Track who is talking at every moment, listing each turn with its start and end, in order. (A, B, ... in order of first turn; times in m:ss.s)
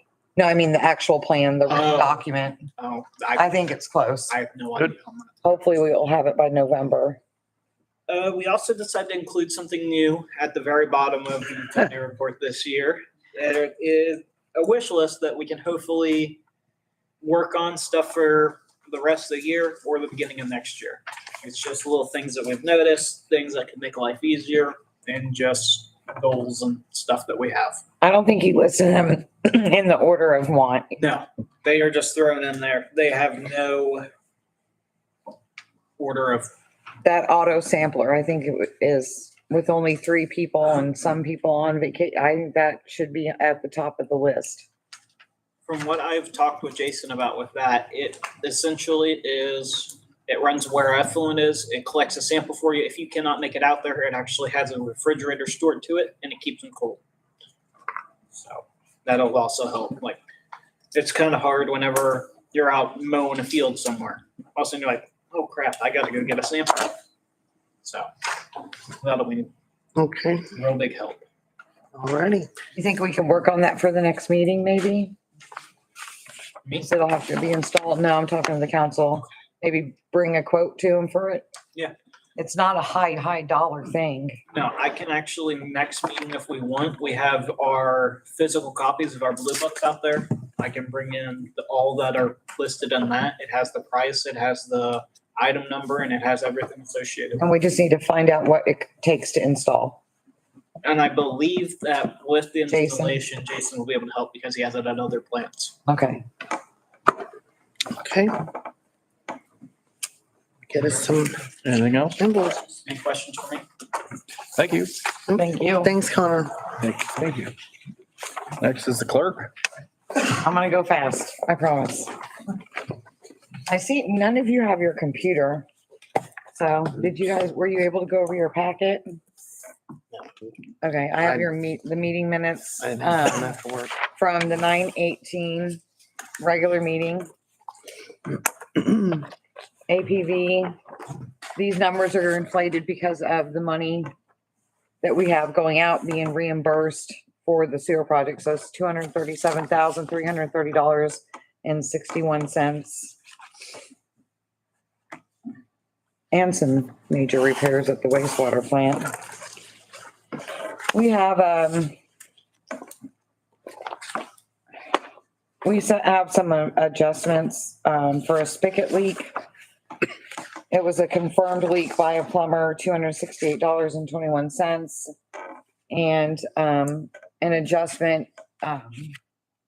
0:00.4-0:02.7 A
0:01.7-0:02.2 B
0:02.8-0:03.7 B
0:03.4-0:04.4 A
0:04.3-0:05.5 B
0:05.4-0:07.2 A
0:08.1-0:16.4 B
0:17.2-0:27.8 B
0:28.0-0:31.0 A
0:31.0-0:34.1 B
0:36.0-0:36.5 B
0:37.0-0:44.7 A
0:45.6-0:57.0 B
0:58.3-1:00.2 B
1:00.9-1:07.0 B
1:07.8-1:08.1 B
1:09.0-1:09.5 B
1:10.0-1:10.4 C
1:10.5-1:11.2 B
1:11.9-1:12.5 C
1:12.7-1:15.1 A
1:16.8-1:21.4 A
1:22.4-1:24.4 A
1:24.5-1:37.4 B
1:37.4-1:40.0 A
1:40.8-1:45.7 B
1:42.7-1:43.2 A
1:45.9-1:46.2 A
1:47.9-1:48.3 C
1:50.7-1:51.5 C
1:51.6-1:52.2 D
1:52.2-1:52.6 C
1:52.8-1:53.6 B
1:54.6-1:55.0 D
1:55.3-1:56.6 C
1:55.3-1:55.9 A
1:56.8-1:57.5 D
1:58.6-1:59.5 D
2:00.2-2:02.1 A
2:03.7-2:05.6 A
2:06.5-2:09.2 A
2:10.8-2:15.8 A
2:12.8-2:14.0 C
2:16.4-2:17.3 A
2:19.9-2:20.8 A
2:21.5-2:24.1 A
2:25.0-2:33.2 A
2:36.3-2:39.1 A
2:40.9-2:41.9 A
2:45.6-2:49.3 A
2:50.7-2:55.1 A
2:55.9-2:59.1 A